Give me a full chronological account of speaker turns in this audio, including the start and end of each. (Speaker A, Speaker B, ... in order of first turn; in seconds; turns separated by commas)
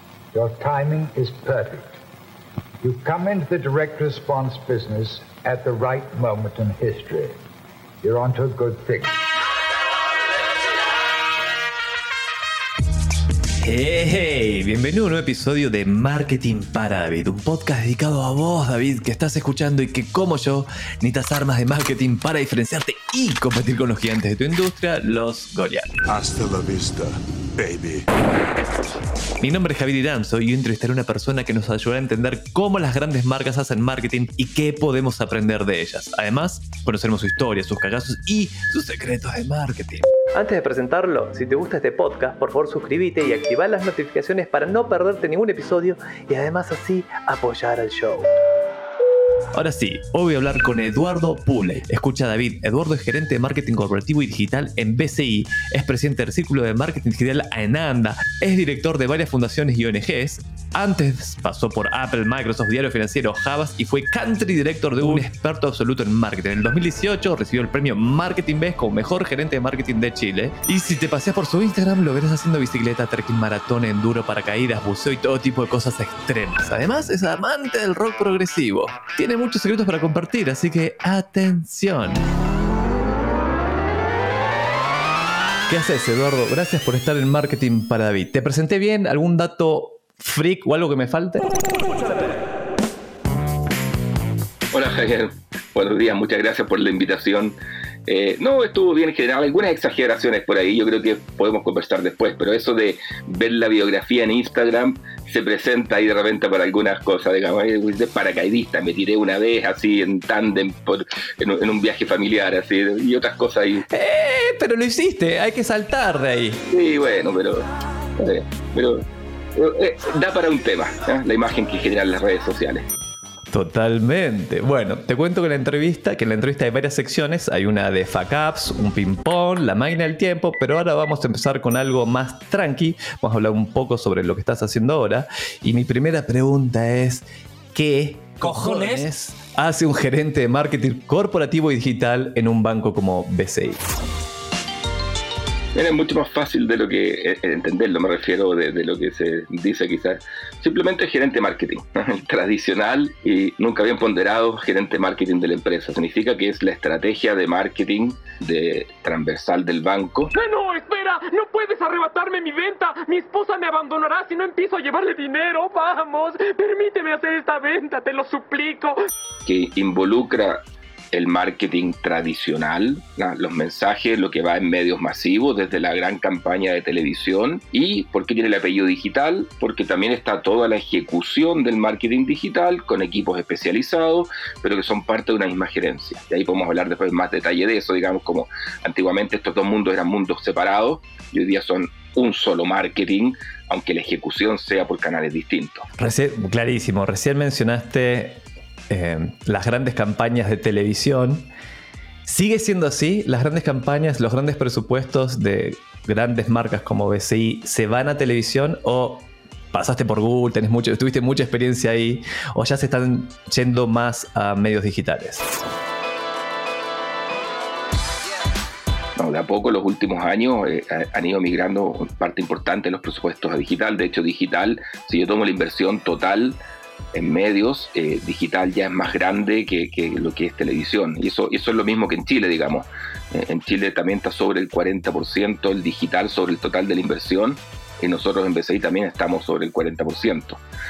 Speaker A: 0.3-1.9, Speaker A: 2.8-7.4, Speaker A: 8.0-9.2, Speaker B: 13.6-25.9, Speaker C: 26.1-28.1, Speaker B: 29.4-48.3, Speaker B: 49.5-82.2, Speaker B: 85.7-92.1, Speaker D: 94.7-113.8, Speaker B: 113.9-116.6, Speaker D: 116.7-117.7, Speaker D: 118.2-119.0, Speaker D: 119.5-122.8, Speaker B: 123.5-143.8, Speaker D: 145.7-160.3, Speaker E: 160.3-169.0, Speaker D: 169.4-170.6, Speaker D: 171.1-195.9, Speaker B: 196.0-201.5, Speaker B: 202.2-215.5, Speaker D: 219.2-226.6, Speaker D: 227.1-240.6